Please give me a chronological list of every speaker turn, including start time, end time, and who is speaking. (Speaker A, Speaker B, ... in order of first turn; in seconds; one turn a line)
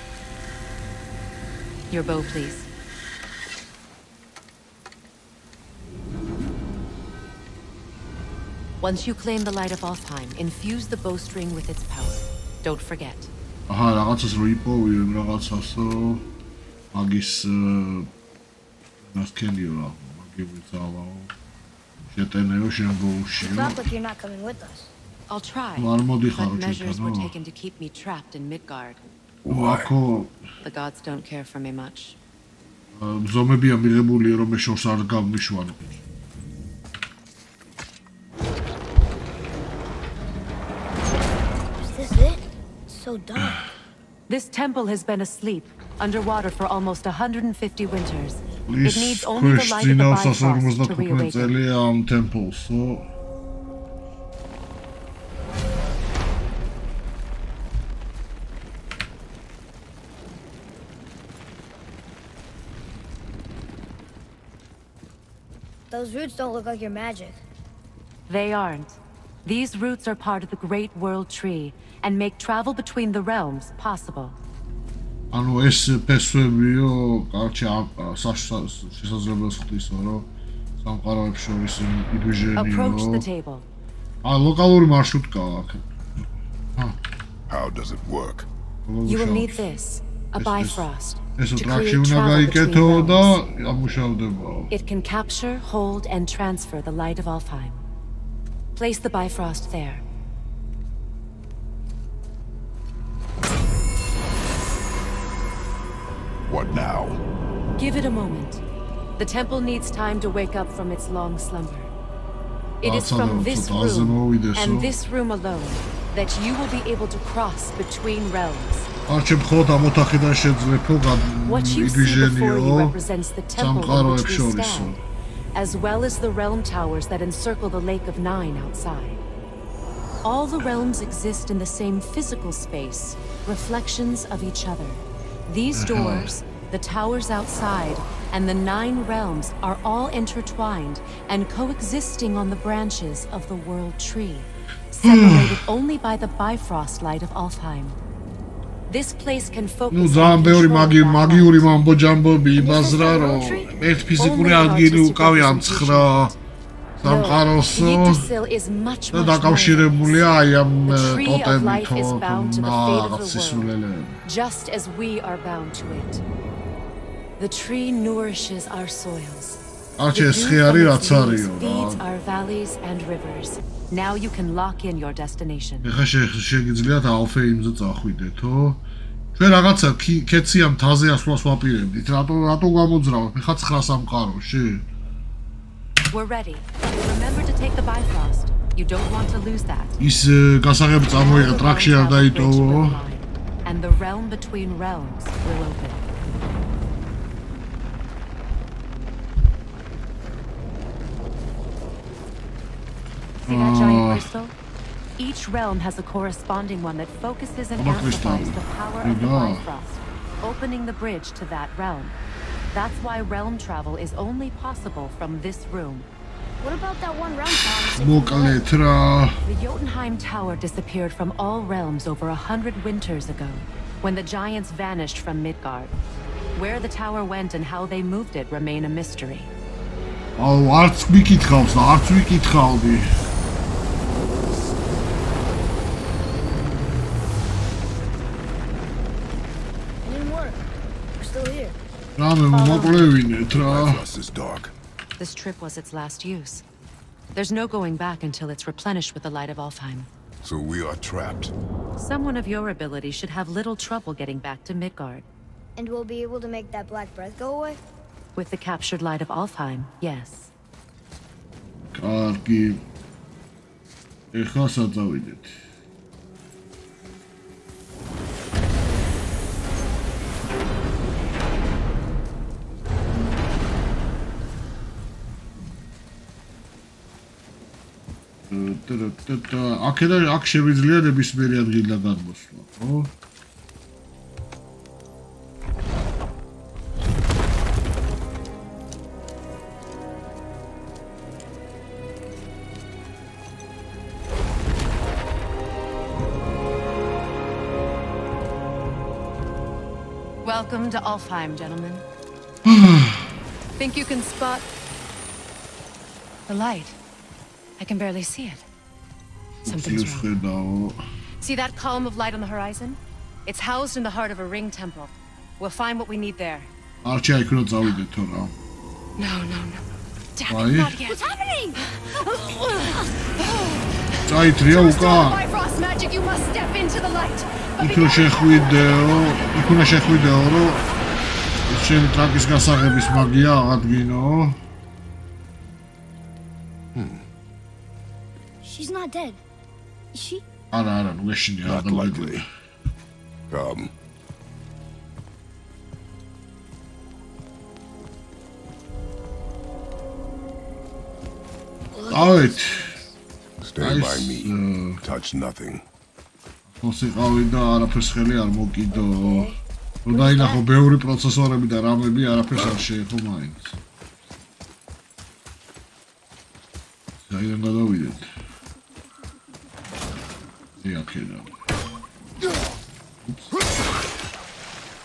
Speaker A: 1.9-2.7
Speaker A: 8.8-13.3
Speaker B: 13.7-16.2
Speaker B: 16.9-18.1
Speaker B: 19.0-21.3
Speaker B: 22.1-23.8
Speaker C: 23.4-24.9
Speaker A: 25.3-29.0
Speaker B: 25.8-27.3
Speaker D: 29.4-29.9
Speaker B: 29.5-30.4
Speaker A: 30.6-32.2
Speaker B: 32.9-36.0
Speaker C: 41.8-43.6
Speaker B: 43.4-43.6
Speaker A: 44.3-51.5
Speaker B: 48.7-53.1
Speaker C: 65.9-67.4
Speaker A: 68.3-74.3
Speaker B: 75.3-80.3
Speaker B: 80.8-83.3
Speaker A: 82.5-83.7
Speaker B: 84.2-87.0
Speaker D: 87.5-88.5
Speaker B: 88.8-89.7
Speaker A: 89.0-93.4
Speaker B: 90.3-94.7
Speaker A: 94.7-97.8
Speaker A: 98.7-100.0
Speaker D: 106.5-107.2
Speaker A: 107.8-108.6
Speaker A: 109.2-111.9
Speaker B: 112.8-114.9
Speaker A: 112.8-118.9
Speaker B: 119.1-123.0
Speaker A: 121.5-125.0
Speaker B: 123.5-125.0
Speaker A: 125.5-129.2
Speaker A: 130.2-148.0
Speaker B: 135.7-136.3
Speaker B: 145.0-145.6
Speaker A: 148.9-151.7
Speaker B: 149.9-156.3
Speaker C: 152.6-153.7
Speaker A: 154.1-156.3
Speaker A: 157.0-160.3
Speaker B: 157.0-158.3
Speaker B: 159.1-164.2
Speaker A: 160.8-163.7
Speaker A: 164.2-166.2
Speaker A: 167.4-169.6
Speaker B: 170.0-172.0
Speaker A: 170.1-175.9
Speaker B: 175.8-178.8
Speaker B: 179.3-184.9
Speaker A: 186.1-190.0
Speaker B: 190.0-193.0
Speaker A: 191.1-196.1
Speaker A: 203.4-204.5
Speaker B: 203.4-204.3
Speaker A: 205.2-212.2
Speaker B: 207.8-209.7
Speaker A: 212.7-216.1
Speaker C: 216.6-218.6
Speaker B: 217.9-219.4
Speaker A: 219.4-225.9
Speaker A: 226.5-229.5
Speaker B: 230.4-233.1
Speaker C: 240.0-241.8
Speaker B: 242.2-244.0
Speaker A: 242.5-243.2
Speaker D: 243.4-244.7
Speaker A: 245.2-246.6
Speaker A: 247.3-250.1
Speaker D: 250.4-251.5
Speaker A: 251.9-255.2
Speaker C: 255.8-257.8
Speaker A: 258.4-260.5
Speaker B: 261.9-262.9
Speaker B: 264.3-265.5
Speaker B: 278.4-283.1
Speaker A: 300.4-302.0
Speaker B: 302.6-303.3
Speaker A: 303.8-304.6
Speaker A: 306.5-307.0
Speaker A: 307.8-308.6
Speaker B: 309.6-311.0
Speaker A: 309.6-310.3
Speaker A: 311.4-316.7
Speaker B: 317.0-318.5
Speaker A: 319.2-323.9
Speaker B: 320.5-321.0
Speaker C: 321.1-321.8
Speaker B: 324.2-325.4
Speaker A: 324.6-329.1
Speaker B: 327.8-330.8
Speaker B: 331.6-334.6
Speaker D: 336.9-337.2
Speaker C: 338.6-339.4
Speaker C: 340.1-340.4
Speaker B: 340.7-342.5
Speaker D: 341.6-342.4
Speaker D: 343.5-343.9
Speaker C: 351.9-353.1
Speaker B: 352.1-352.9
Speaker D: 353.6-355.8
Speaker B: 353.8-355.0
Speaker B: 356.7-359.5
Speaker C: 358.9-360.6
Speaker B: 360.1-363.8
Speaker B: 367.2-368.3
Speaker B: 370.8-371.5
Speaker B: 373.2-373.5